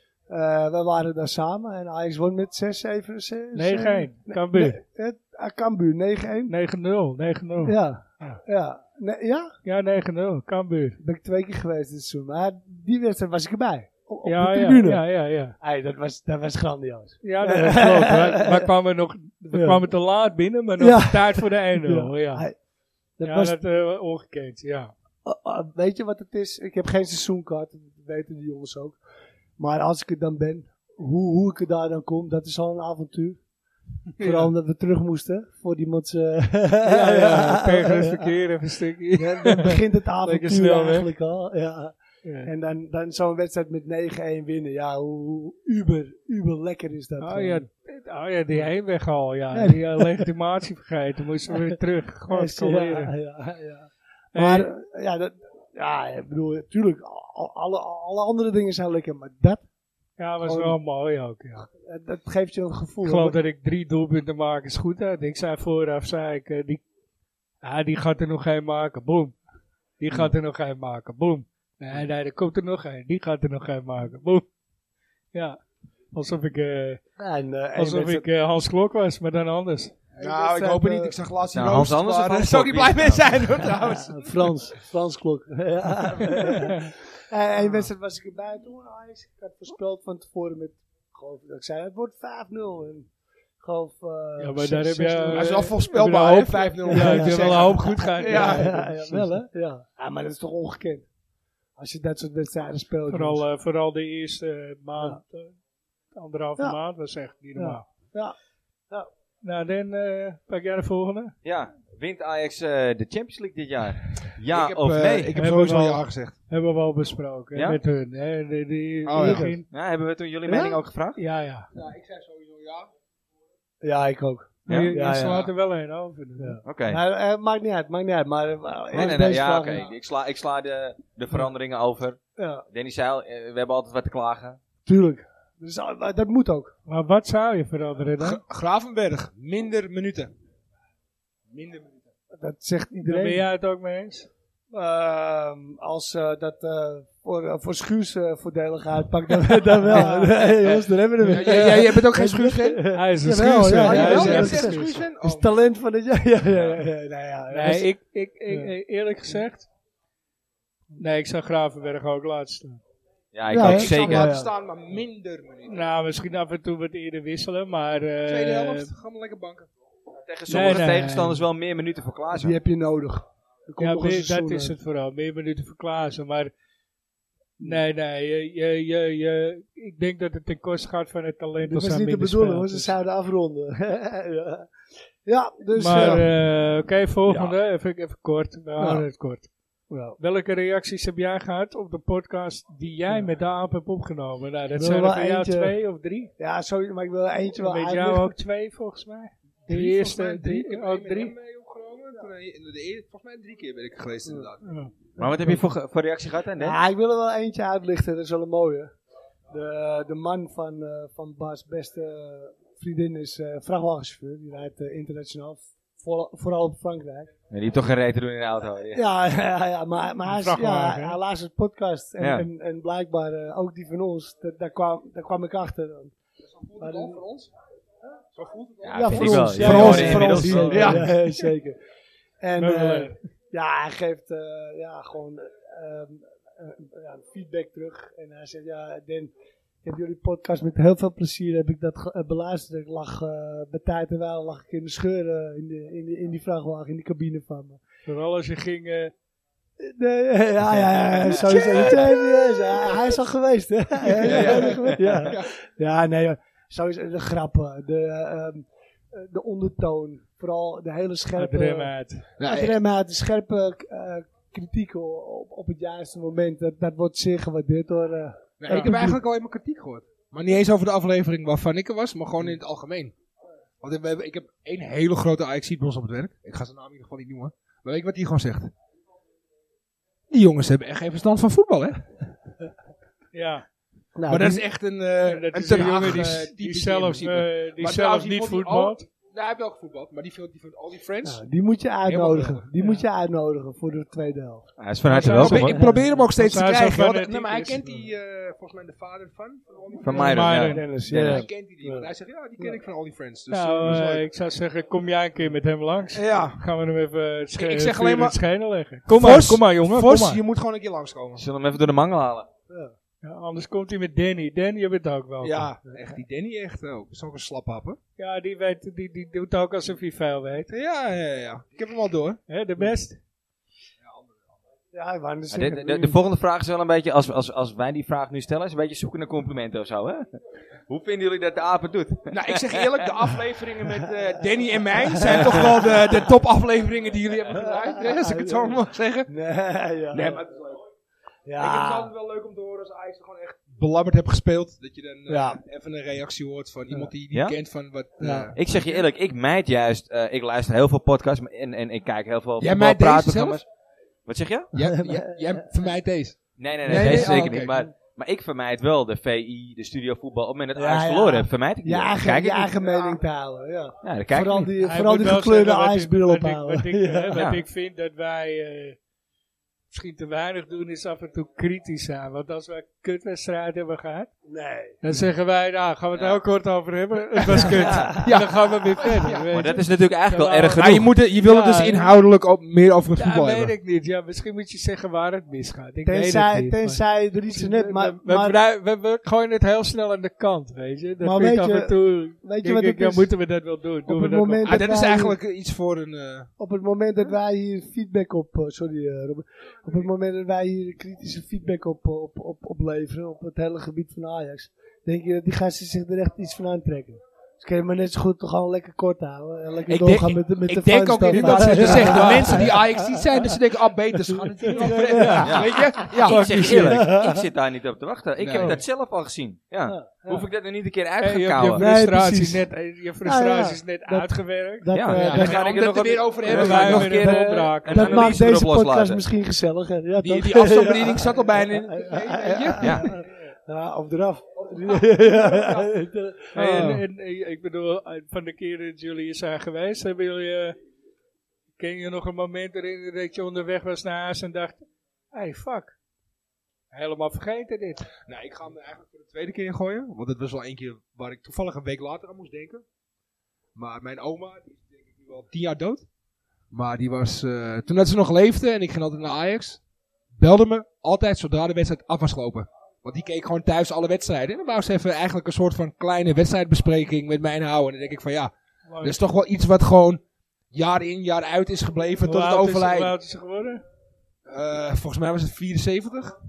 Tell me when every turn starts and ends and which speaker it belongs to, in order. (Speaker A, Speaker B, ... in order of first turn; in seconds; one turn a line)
Speaker A: 0.3-6.5
Speaker B: 3.5-4.8
Speaker B: 6.5-8.4
Speaker A: 7.6-9.6
Speaker B: 9.7-11.0
Speaker A: 11.0-15.1
Speaker B: 14.2-15.6
Speaker A: 15.6-18.7
Speaker B: 17.2-22.5
Speaker A: 19.5-19.8
Speaker A: 20.8-22.6
Speaker A: 23.2-23.6
Speaker B: 23.2-24.9
Speaker A: 25.2-29.0
Speaker A: 29.6-33.4
Speaker A: 34.2-38.3
Speaker B: 36.9-41.1
Speaker A: 39.2-47.7
Speaker B: 42.2-42.5
Speaker B: 47.2-53.1
Speaker A: 49.5-50.3
Speaker A: 52.3-59.6
Speaker B: 54.3-54.7
Speaker B: 60.2-61.7
Speaker A: 60.4-60.8
Speaker A: 61.8-63.4
Speaker B: 63.0-66.8
Speaker B: 67.6-69.3
Speaker B: 70.0-74.5
Speaker B: 76.1-77.0
Speaker A: 77.2-78.3
Speaker B: 77.8-80.0
Speaker C: 80.2-84.4
Speaker A: 80.2-81.2
Speaker D: 81.5-83.3
Speaker A: 84.1-93.1
Speaker A: 93.6-95.7
Speaker B: 94.4-98.7
Speaker C: 95.3-99.2
Speaker A: 96.9-101.1
Speaker A: 101.8-103.5
Speaker B: 103.1-105.5
Speaker B: 106.1-107.8
Speaker A: 107.5-108.4
Speaker B: 109.4-111.3
Speaker D: 111.4-115.3
Speaker C: 114.5-116.3
Speaker B: 115.3-119.7
Speaker D: 117.5-117.8
Speaker C: 119.1-119.5
Speaker A: 119.2-119.6
Speaker D: 119.7-121.2
Speaker A: 120.5-120.8
Speaker B: 121.2-121.7
Speaker C: 121.7-122.9
Speaker A: 123.8-125.5
Speaker D: 124.7-124.9
Speaker B: 124.7-126.6
Speaker A: 126.4-129.9
Speaker D: 126.7-127.0
Speaker D: 128.9-134.6
Speaker A: 132.4-132.7
Speaker A: 134.9-136.8
Speaker B: 136.9-138.4
Speaker C: 138.2-140.3
Speaker C: 141.5-142.1
Speaker A: 142.3-143.4
Speaker B: 143.0-144.3
Speaker A: 144.7-157.9
Speaker B: 149.9-150.3
Speaker C: 151.2-152.8
Speaker B: 151.3-151.8
Speaker B: 152.9-154.9
Speaker C: 153.8-155.5
Speaker B: 157.5-159.7
Speaker B: 161.0-162.8
Speaker D: 163.3-164.4
Speaker A: 163.5-164.5
Speaker C: 163.6-165.8
Speaker B: 165.7-168.9
Speaker C: 168.3-169.7
Speaker D: 170.2-172.6
Speaker B: 170.5-171.4
Speaker A: 172.3-174.8
Speaker B: 173.8-176.5
Speaker B: 177.6-182.9
Speaker A: 181.7-184.7
Speaker A: 185.2-186.3
Speaker B: 185.8-189.5
Speaker C: 185.9-186.2
Speaker A: 188.8-189.1
Speaker A: 189.9-190.2
Speaker B: 190.2-196.3
Speaker A: 194.8-195.8
Speaker A: 196.4-198.4
Speaker B: 197.6-201.3
Speaker C: 199.7-204.6
Speaker B: 204.6-204.9
Speaker D: 205.2-206.8
Speaker A: 205.2-205.6
Speaker A: 206.6-208.9
Speaker A: 209.5-217.3
Speaker D: 217.5-219.0
Speaker A: 218.9-226.1
Speaker B: 220.3-221.2
Speaker D: 222.2-222.5
Speaker C: 226.5-227.5
Speaker A: 226.8-227.2
Speaker C: 228.3-231.2
Speaker D: 228.8-231.0
Speaker A: 228.9-231.8
Speaker B: 229.6-231.1
Speaker A: 232.4-239.3
Speaker B: 232.6-233.2
Speaker A: 239.8-247.8
Speaker B: 248.1-249.1
Speaker A: 249.8-269.2
Speaker C: 254.2-255.5
Speaker B: 261.4-262.3
Speaker C: 262.4-262.8
Speaker C: 268.6-273.1
Speaker C: 273.8-278.7
Speaker C: 280.3-282.0
Speaker B: 283.3-283.6
Speaker A: 284.2-284.6
Speaker C: 284.3-291.4
Speaker B: 285.2-289.1
Speaker A: 291.2-294.7
Speaker C: 292.1-292.7
Speaker B: 292.8-293.0
Speaker D: 294.8-295.8
Speaker B: 295.1-295.8
Speaker C: 295.1-300.5
Speaker A: 295.5-296.0
Speaker B: 296.3-297.9
Speaker D: 300.0-301.5
Speaker B: 300.1-300.9
Speaker A: 300.5-302.8
Speaker C: 301.1-304.3
Speaker B: 303.5-310.4
Speaker C: 306.1-306.6
Speaker C: 307.6-308.4
Speaker C: 309.1-311.4
Speaker D: 311.4-312.5
Speaker A: 312.7-312.9
Speaker B: 313.2-315.7
Speaker C: 315.4-318.0
Speaker B: 318.2-320.7
Speaker C: 320.7-322.4
Speaker B: 322.5-323.2
Speaker C: 324.1-324.4
Speaker A: 324.9-326.2
Speaker D: 325.5-330.3
Speaker D: 330.9-333.0
Speaker C: 332.3-339.3
Speaker A: 335.1-335.8
Speaker A: 337.6-340.4
Speaker C: 340.1-340.8
Speaker A: 341.5-342.1
Speaker C: 341.6-349.1
Speaker A: 345.3-345.6
Speaker D: 347.3-347.6
Speaker D: 348.2-353.6
Speaker C: 352.6-353.6
Speaker D: 354.3-354.7
Speaker C: 354.7-357.8
Speaker A: 354.8-355.6
Speaker D: 356.6-363.1
Speaker A: 356.9-357.3
Speaker A: 360.8-367.4
Speaker D: 364.0-364.7
Speaker B: 364.8-369.0
Speaker D: 367.4-367.6
Speaker B: 369.9-374.3
Speaker A: 374.4-375.0
Speaker B: 375.0-382.1
Speaker D: 376.2-376.4
Speaker C: 377.4-379.4
Speaker A: 377.7-378.3
Speaker D: 379.5-381.1
Speaker C: 380.8-383.7
Speaker B: 383.2-387.0
Speaker A: 386.1-388.6
Speaker B: 387.5-394.8
Speaker A: 391.2-393.3
Speaker A: 394.1-395.4
Speaker C: 394.7-396.5
Speaker A: 396.6-413.4
Speaker C: 409.9-416.7
Speaker B: 411.3-411.9
Speaker A: 414.3-415.9
Speaker B: 415.1-417.1
Speaker D: 415.4-421.9
Speaker A: 416.6-417.5
Speaker C: 418.4-418.8
Speaker A: 419.9-420.5
Speaker B: 421.2-425.6
Speaker A: 421.8-422.7
Speaker A: 423.2-425.6
Speaker D: 424.9-429.2
Speaker C: 425.1-427.3
Speaker B: 426.4-428.4
Speaker A: 427.1-437.0
Speaker C: 430.2-433.2
Speaker D: 432.8-433.1
Speaker C: 434.6-435.9
Speaker B: 436.5-440.8
Speaker C: 436.6-437.0
Speaker B: 441.8-446.0
Speaker B: 446.9-448.1
Speaker C: 448.2-452.8
Speaker C: 453.8-456.1
Speaker C: 456.7-459.8
Speaker C: 460.4-473.1
Speaker B: 468.9-469.2
Speaker B: 472.2-473.8
Speaker C: 474.5-476.4